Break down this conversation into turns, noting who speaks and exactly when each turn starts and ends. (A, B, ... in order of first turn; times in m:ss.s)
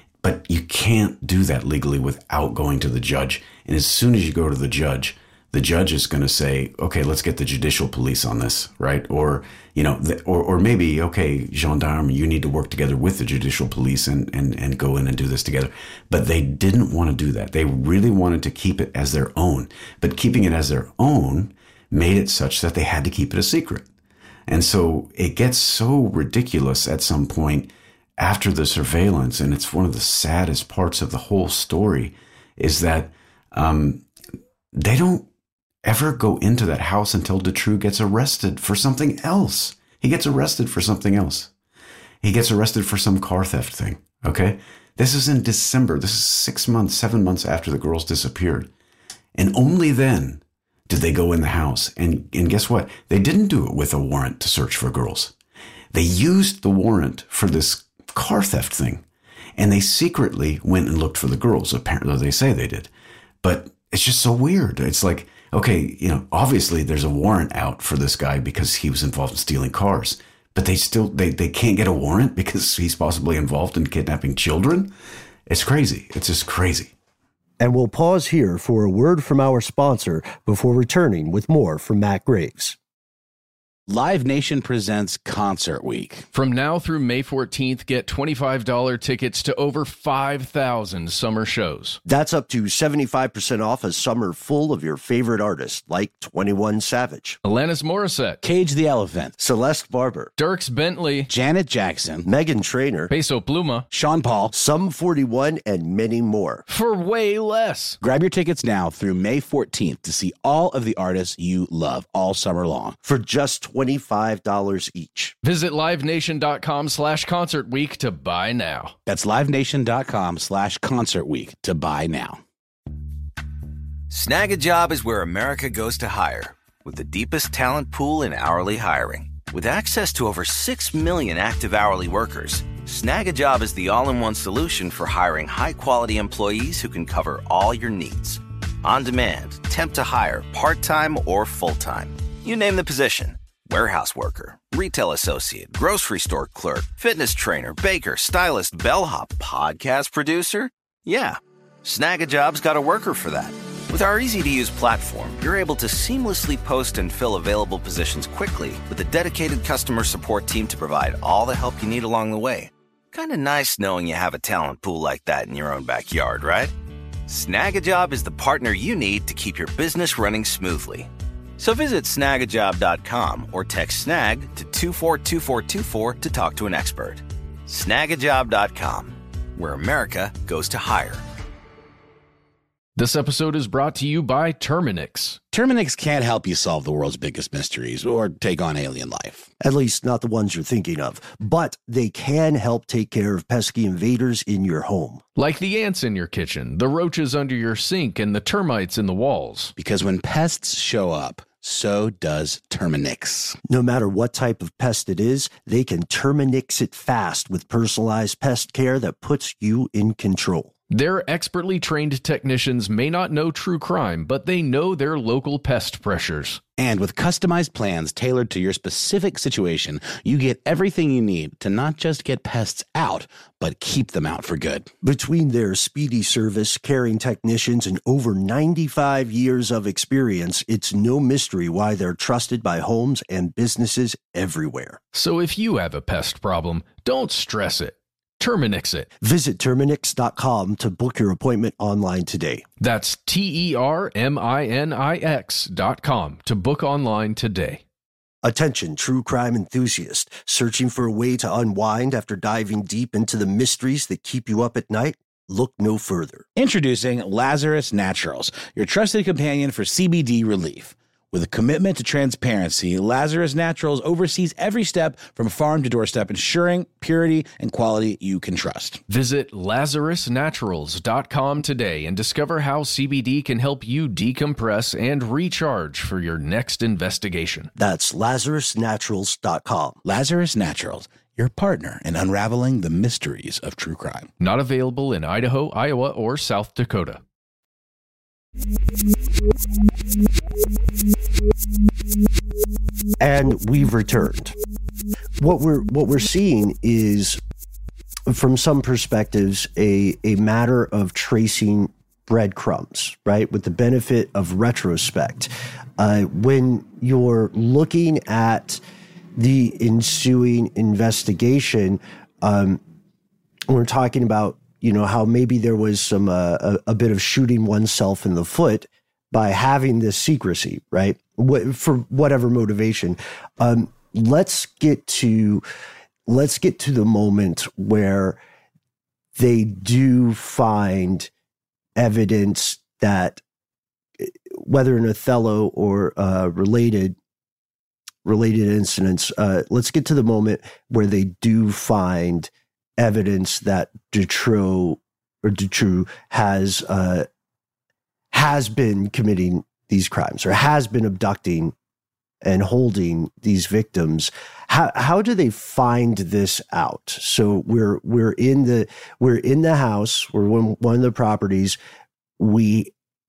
0:00.2-0:23.8 A
0:24.5-0:34.0 A
0:34.7-0:35.3 A
0:35.8-0:41.5 A
0:42.2-0:48.7 A
0:49.3-0:55.3 A
0:55.9-0:59.0 A
0:59.6-1:02.9 A
1:03.4-1:14.9 A
1:15.5-1:16.9 A
1:17.6-1:22.8 B
1:23.9-1:26.3 C
1:26.3-1:32.0 D
1:32.0-1:37.4 B
1:37.4-1:38.4 D
1:38.4-1:39.3 C
1:39.4-1:40.3 B
1:40.4-1:41.3 D
1:41.3-1:42.3 C
1:42.2-1:43.1 B
1:43.1-1:43.9 D
1:43.9-1:44.5 C
1:44.5-1:46.6 B
1:46.7-1:48.0 D
1:48.0-1:53.0 C
1:53.0-1:55.3 B
1:55.4-1:58.9 D
1:59.0-2:02.4 C
2:04.1-2:46.7 E
2:47.3-3:01.2 E
3:03.0-3:05.4 D
3:05.5-3:09.5 C
3:09.6-3:15.2 B
3:15.4-3:19.7 D
3:19.8-3:23.6 C
3:23.7-3:30.7 B
3:30.9-3:36.6 D
3:36.8-3:44.9 C
3:45.0-3:55.0 B
3:55.1-3:59.1 D
3:59.2-4:02.6 B
4:02.8-4:07.8 D
4:08.4-4:16.4 B
4:16.6-4:29.0 C
4:29.1-4:37.7 D
4:37.8-4:40.0 B
4:40.0-4:44.3 C
4:44.4-4:47.2 D
4:53.2-4:54.5 B
4:55.4-4:57.4 B
4:58.3-5:08.8 B
5:09.4-5:12.8 B
5:13.7-5:25.6 B
5:26.2-5:28.4 B
5:29.4-5:31.3 B
5:32.0-5:33.4 B
5:34.2-5:37.2 B
5:38.2-5:47.2 B
5:48.3-5:51.7 B
5:52.4-6:01.8 B
6:02.4-6:02.9 B